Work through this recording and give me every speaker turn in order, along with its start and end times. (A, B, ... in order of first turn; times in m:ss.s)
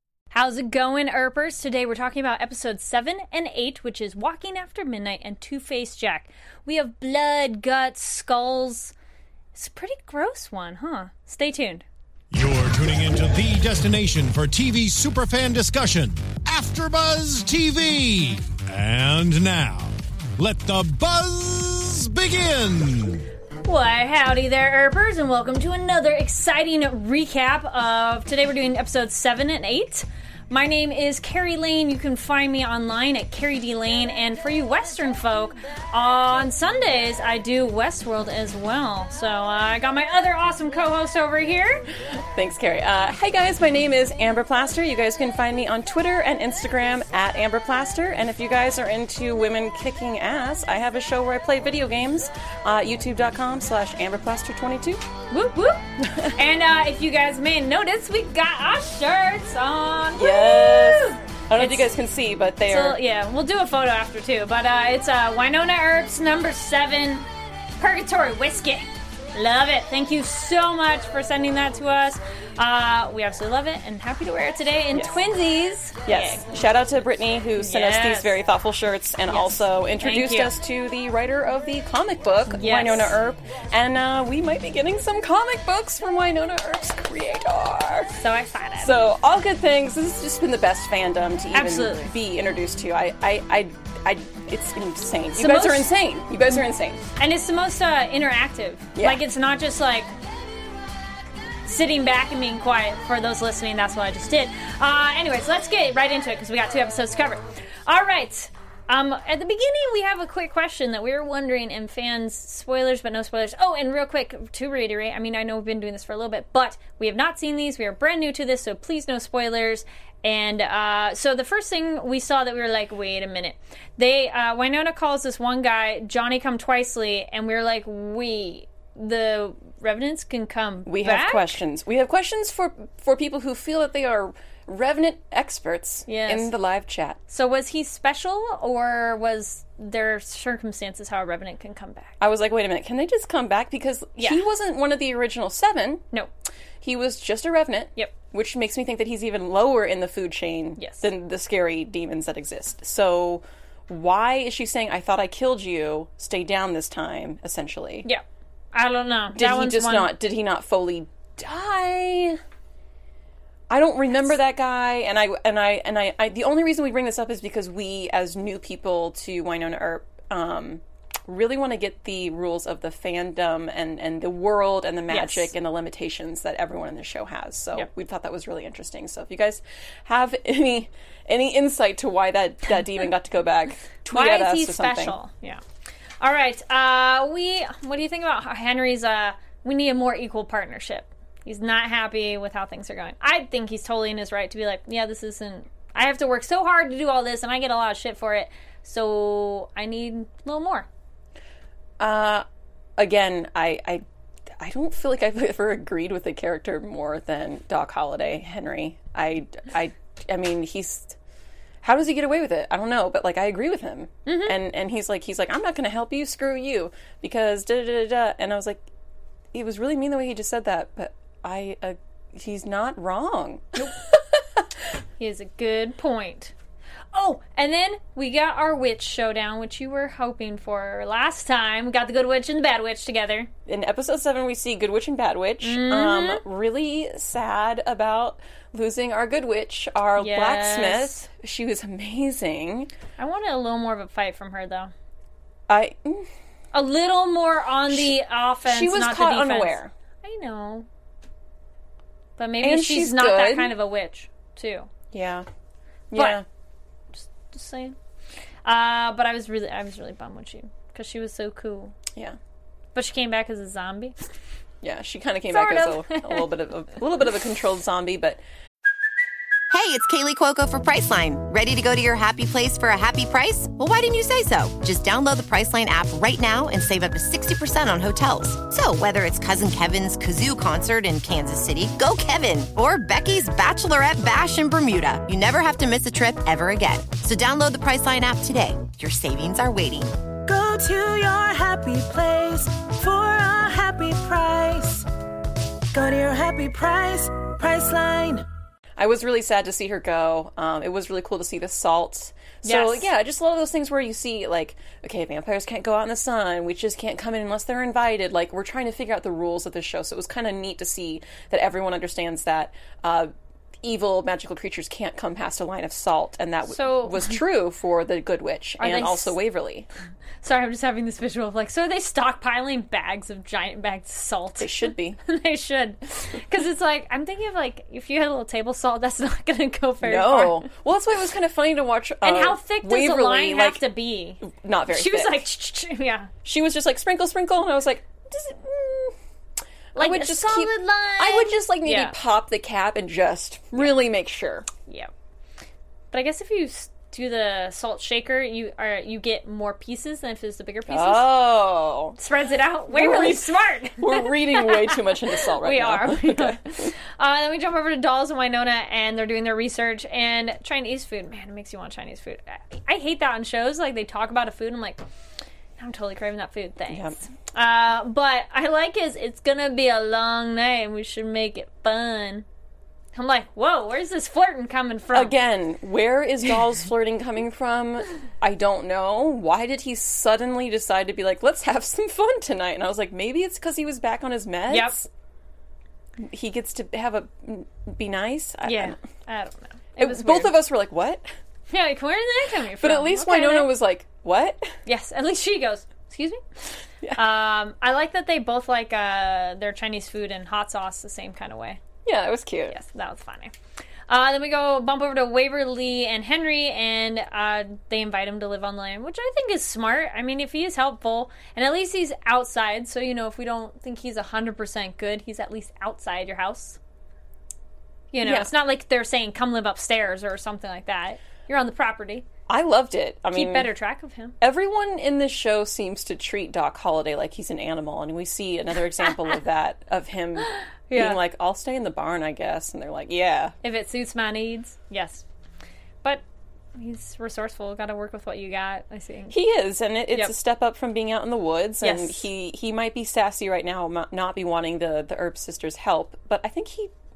0:00.3-0:08.9 A
0:09.6-0:11.8 A
0:12.3-0:23.3 B
0:23.6-0:41.8 A
0:42.3-0:55.0 C
0:55.3-1:01.9 A
0:56.0-0:56.3 C
1:00.2-1:03.0 C
1:02.7-1:07.3 A
1:07.8-1:16.4 A
1:14.9-1:15.2 C
1:16.0-1:28.1 C
1:17.6-1:18.4 A
1:19.3-1:20.6 A
1:22.5-1:23.2 A
1:28.2-1:29.0 A
1:28.8-1:37.0 C
1:31.5-1:32.1 A
1:35.4-1:35.9 A
1:37.2-1:40.1 A
1:39.0-1:39.2 C
1:41.7-2:11.6 A
2:10.9-2:17.2 C
2:16.1-2:16.5 A
2:17.3-2:22.1 A
2:22.2-2:26.0 C
2:24.2-2:24.4 A
2:26.8-2:38.1 C
2:30.8-2:31.1 A
2:38.0-2:40.1 A
2:39.3-2:42.4 C
2:43.7-3:05.2 C
2:55.1-2:55.5 A
3:04.1-3:05.6 A
3:06.2-3:20.9 A
3:22.0-3:22.4 C
3:23.0-3:24.0 C
3:24.6-3:31.2 C
3:31.8-3:38.8 C
3:34.3-3:34.6 A
3:39.5-3:44.6 C
3:45.2-3:46.5 A
3:47.1-3:53.5 A
3:53.7-4:02.9 C
3:55.6-3:56.4 A
4:00.2-4:01.3 A
4:03.2-4:04.9 A
4:05.7-4:06.3 C
4:06.7-4:10.9 A
4:08.6-4:09.9 C
4:12.4-4:14.9 A
4:12.6-4:13.7 C
4:15.1-4:15.5 C
4:16.1-4:16.4 C
4:16.2-4:16.4 A
4:17.1-4:18.0 A
4:18.6-4:21.9 A
4:23.0-4:24.3 A
4:24.8-4:28.4 C
4:25.5-4:26.5 A
4:29.7-4:50.2 D
4:50.4-4:55.1 E
4:55.9-4:58.5 E
4:59.0-5:13.3 C
5:02.6-5:03.1 A
5:13.8-5:19.9 C
5:16.7-5:17.4 A
5:18.8-5:19.4 A
5:20.4-5:30.7 A
5:24.6-5:25.2 C
5:30.0-5:33.8 C
5:32.2-5:36.3 A
5:34.4-5:35.5 C
5:36.4-5:39.2 C
5:39.9-5:44.7 C
5:40.0-5:42.2 A
5:46.1-5:51.3 A
5:50.9-5:52.2 C
5:52.2-6:05.0 A
5:52.9-5:56.9 C
6:05.8-6:12.5 A
6:06.9-6:07.2 C
6:13.1-6:15.3 A
6:15.1-6:25.1 C
6:24.7-6:25.0 A
6:26.2-6:29.0 C
6:28.6-6:30.5 A
6:30.0-6:31.3 C
6:31.7-6:33.7 A
6:32.8-6:34.8 C
6:34.9-6:36.4 A
6:37.2-6:41.8 A
6:42.0-6:42.8 C
6:42.7-6:43.5 A
6:44.1-6:56.8 A
6:58.1-7:02.3 A
6:58.2-6:58.5 C
7:02.5-7:03.7 C
7:03.3-7:04.4 A
7:04.4-7:13.5 C
7:10.6-7:11.2 A
7:13.6-7:15.2 A
7:16.8-7:19.4 A
7:19.3-7:26.9 C
7:21.8-7:22.2 A